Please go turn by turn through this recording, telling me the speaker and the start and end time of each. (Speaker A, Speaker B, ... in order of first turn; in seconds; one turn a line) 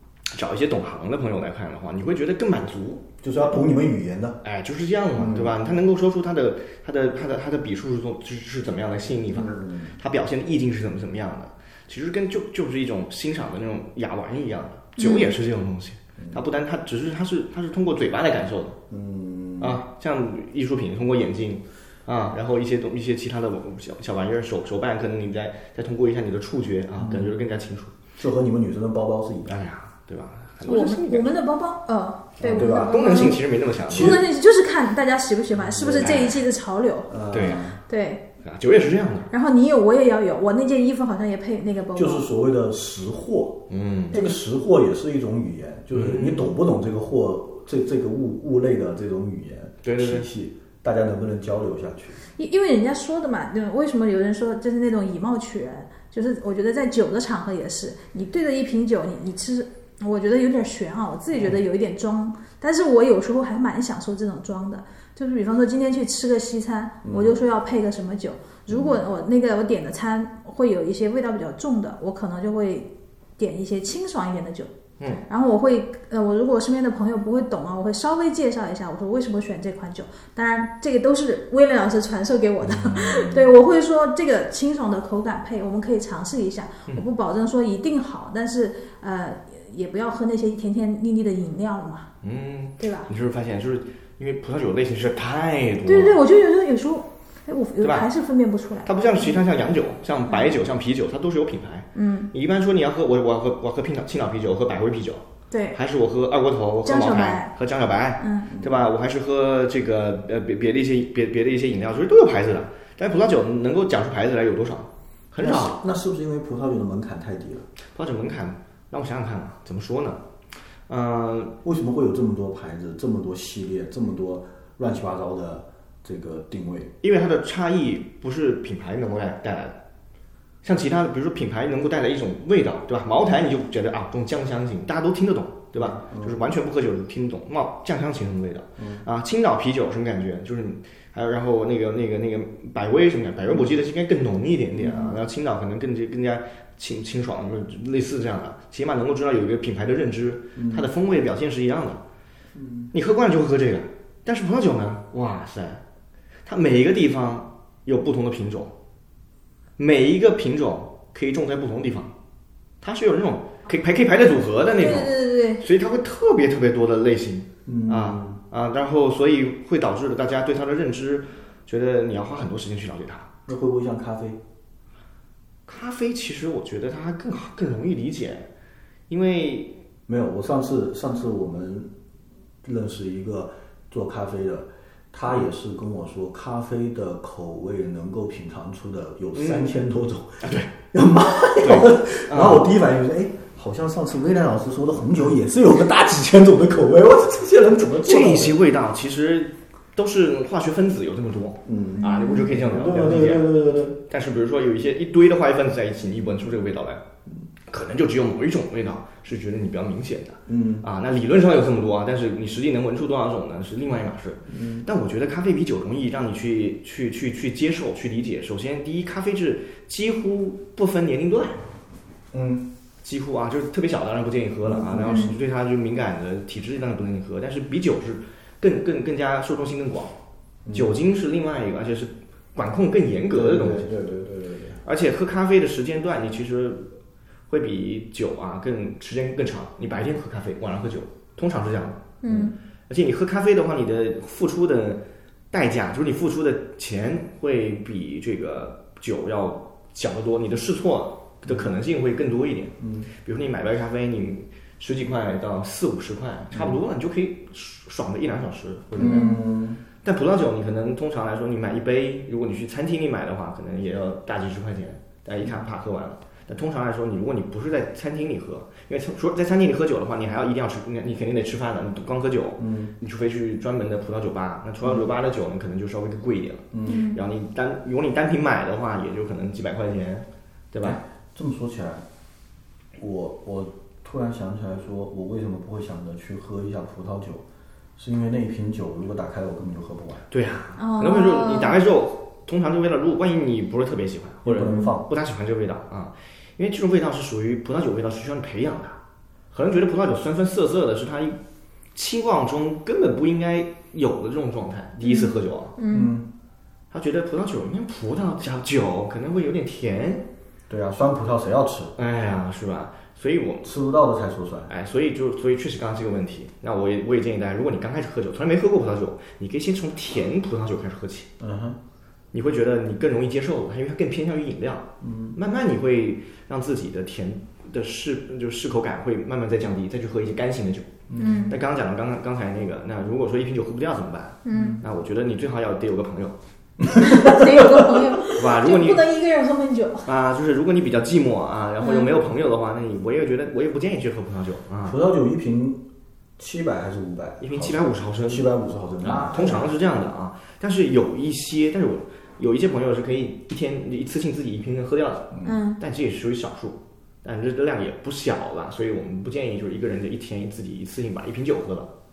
Speaker A: 0.3-3.0
Speaker B: 3.2-4.4
Speaker A: 4.4-18.8
Speaker B: 5.1-5.5
Speaker B: 9.3-10.0
Speaker C: 15.0-15.3
Speaker B: 16.2-16.4
Speaker B: 18.9-19.8
Speaker A: 19.6-27.9
Speaker B: 27.0-27.3
Speaker B: 28.2-29.6
Speaker A: 29.5-31.4
Speaker C: 30.6-37.1
Speaker A: 32.4-34.2
Speaker B: 32.4-34.2
Speaker B: 35.5-36.3
Speaker A: 36.0-36.4
Speaker B: 37.1-37.8
Speaker A: 37.3-37.6
Speaker C: 37.9-38.2
Speaker A: 38.4-39.3
Speaker C: 39.3-42.3
Speaker B: 41.9-43.6
Speaker A: 43.7-44.2
Speaker B: 44.1-52.2
Speaker A: 45.9-46.5
Speaker A: 49.8-50.3
Speaker C: 52.4-74.7
Speaker B: 67.0-67.4
Speaker B: 68.7-69.0
Speaker C: 75.3-92.1
Speaker B: 82.6-83.5
Speaker A: 92.2-96.2
Speaker C: 92.8-93.1
Speaker C: 95.9-99.4
Speaker A: 97.8-98.1
Speaker A: 98.8-105.2
Speaker C: 101.9-102.3
Speaker C: 105.5-105.8
Speaker A: 105.7-115.8
Speaker C: 106.8-107.5
Speaker C: 108.2-108.5
Speaker B: 115.4-117.7
Speaker A: 117.9-120.2
Speaker A: 120.9-121.6
Speaker B: 121.6-126.9
Speaker A: 127.0-129.8
Speaker A: 130.6-152.0
Speaker B: 135.8-136.4
Speaker B: 138.8-139.1
Speaker B: 144.8-145.2
Speaker B: 150.6-150.9
Speaker B: 152.6-152.9
Speaker A: 152.9-155.8
Speaker A: 156.4-158.7
Speaker A: 159.8-162.1
Speaker A: 162.8-173.3
Speaker C: 164.8-165.6
Speaker B: 167.7-168.4
Speaker B: 173.5-174.4
Speaker A: 175.7-178.5
Speaker A: 179.1-179.8
Speaker B: 180.1-181.9
Speaker B: 182.6-198.6
Speaker A: 189.3-189.7
Speaker A: 190.4-190.7
Speaker A: 191.6-192.7
Speaker A: 198.0-203.5
Speaker B: 201.6-204.0
Speaker C: 202.0-202.5
Speaker A: 204.0-207.0
Speaker A: 207.7-221.7
Speaker B: 210.5-210.9
Speaker B: 214.5-214.9
Speaker B: 222.3-222.7
Speaker A: 223.0-230.1
Speaker B: 224.6-225.3
Speaker C: 225.1-225.3
Speaker B: 230.6-230.9
Speaker A: 230.7-233.9
Speaker B: 233.3-234.8
Speaker A: 234.8-236.9
Speaker A: 237.5-242.0
Speaker C: 242.2-242.5
Speaker B: 242.2-242.5
Speaker A: 242.9-259.4
Speaker B: 252.8-253.1
Speaker B: 258.9-259.8
Speaker C: 259.0-259.4
Speaker A: 260.0-281.0
Speaker B: 272.6-272.9
Speaker B: 276.7-277.1
Speaker C: 276.9-277.2
Speaker B: 280.8-282.0
Speaker B: 282.9-287.4
Speaker B: 288.0-290.3
Speaker A: 290.3-299.0
Speaker C: 290.8-291.8
Speaker B: 294.4-295.1
Speaker C: 294.6-294.9
Speaker A: 299.5-301.4
Speaker A: 301.9-305.8
Speaker C: 305.0-306.1
Speaker B: 305.9-306.3
Speaker A: 306.9-310.3
Speaker B: 310.7-311.9
Speaker A: 311.9-313.7
Speaker B: 313.6-314.7
Speaker A: 314.7-321.3
Speaker B: 321.4-321.8
Speaker A: 322.3-330.9
Speaker B: 325.0-325.4
Speaker B: 331.1-331.5
Speaker C: 331.2-331.6
Speaker A: 331.5-336.4
Speaker C: 334.4-334.8
Speaker B: 334.5-334.8
Speaker B: 336.8-338.0
Speaker C: 337.0-340.1
Speaker A: 338.4-339.0
Speaker A: 340.1-345.0
Speaker C: 341.8-342.1
Speaker B: 344.9-345.8
Speaker B: 346.4-349.8
Speaker A: 347.4-348.5
Speaker A: 349.0-361.9
Speaker C: 355.4-355.8